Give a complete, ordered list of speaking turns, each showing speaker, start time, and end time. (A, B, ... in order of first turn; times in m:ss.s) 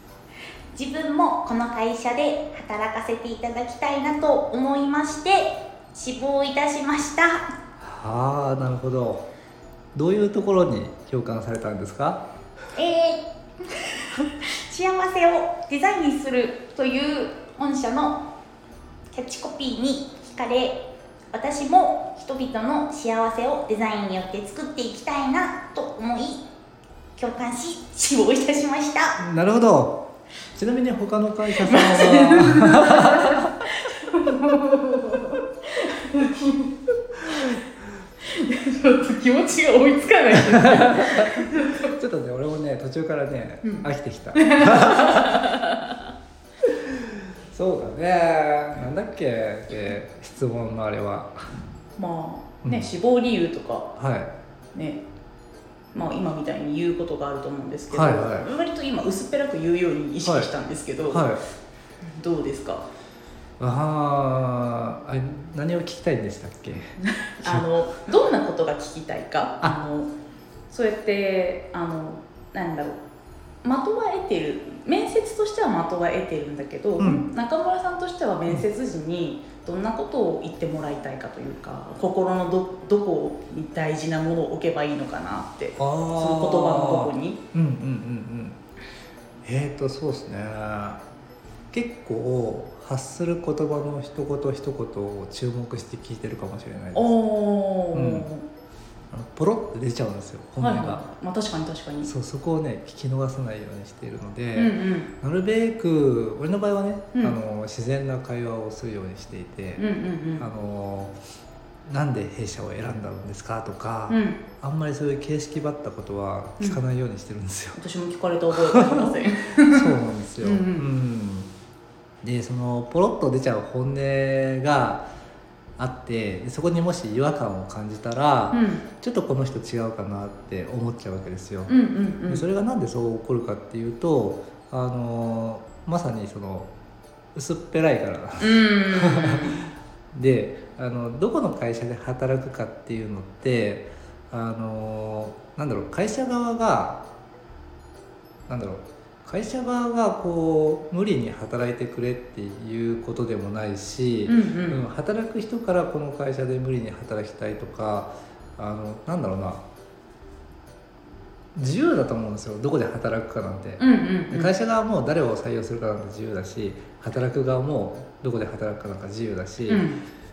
0:00.7-0:07.5 A
0:07.8-0:09.2 B
0:10.0-0:12.2 B
0:12.8-0:13.2 A
0:13.8-0:18.2 A
0:19.1-0:20.8 A
0:21.3-0:26.4 A
0:27.2-0:29.2 A
0:29.2-0:30.0 B
0:30.6-0:33.5 B
0:31.5-0:37.6 A
0:38.2-0:41.9 A
0:40.3-0:45.5 B
0:43.6-0:46.0 A
0:46.7-0:51.5 B
0:52.0-0:53.9 A
0:52.6-0:52.9 B
0:54.0-0:54.3 B
0:54.7-0:55.0 A
0:55.9-1:01.4 A
0:57.9-0:58.5 B
1:00.2-1:00.5 B
1:01.1-1:01.4 B
1:02.0-1:02.8 A
1:03.6-1:07.7 B
1:07.0-1:10.1 A
1:10.7-1:13.0 A
1:13.6-1:27.4 A
1:17.0-1:17.2 B
1:25.8-1:28.6 B
1:29.4-1:31.0 B
1:31.7-1:37.1 B
1:36.9-1:38.4 A
1:37.9-1:38.3 B
1:39.1-1:41.0 B
1:40.6-1:42.1 A
1:42.0-1:49.8 B
1:44.5-1:45.1 A
1:49.8-1:50.5 A
1:50.4-1:51.2 B
1:51.9-1:57.8 B
1:54.1-1:54.4 A
1:57.8-2:00.9 A
1:58.6-2:01.5 B
2:02.2-2:05.1 B
2:05.8-2:11.7 B
2:08.5-2:08.8 A
2:11.7-2:12.4 A
2:12.3-2:16.7 B
2:17.4-2:27.0 B
2:18.4-2:19.7 A
2:28.5-2:39.6 B
2:34.3-2:34.8 A
2:41.6-2:49.9 B
2:43.8-2:44.5 A
2:49.7-2:50.0 A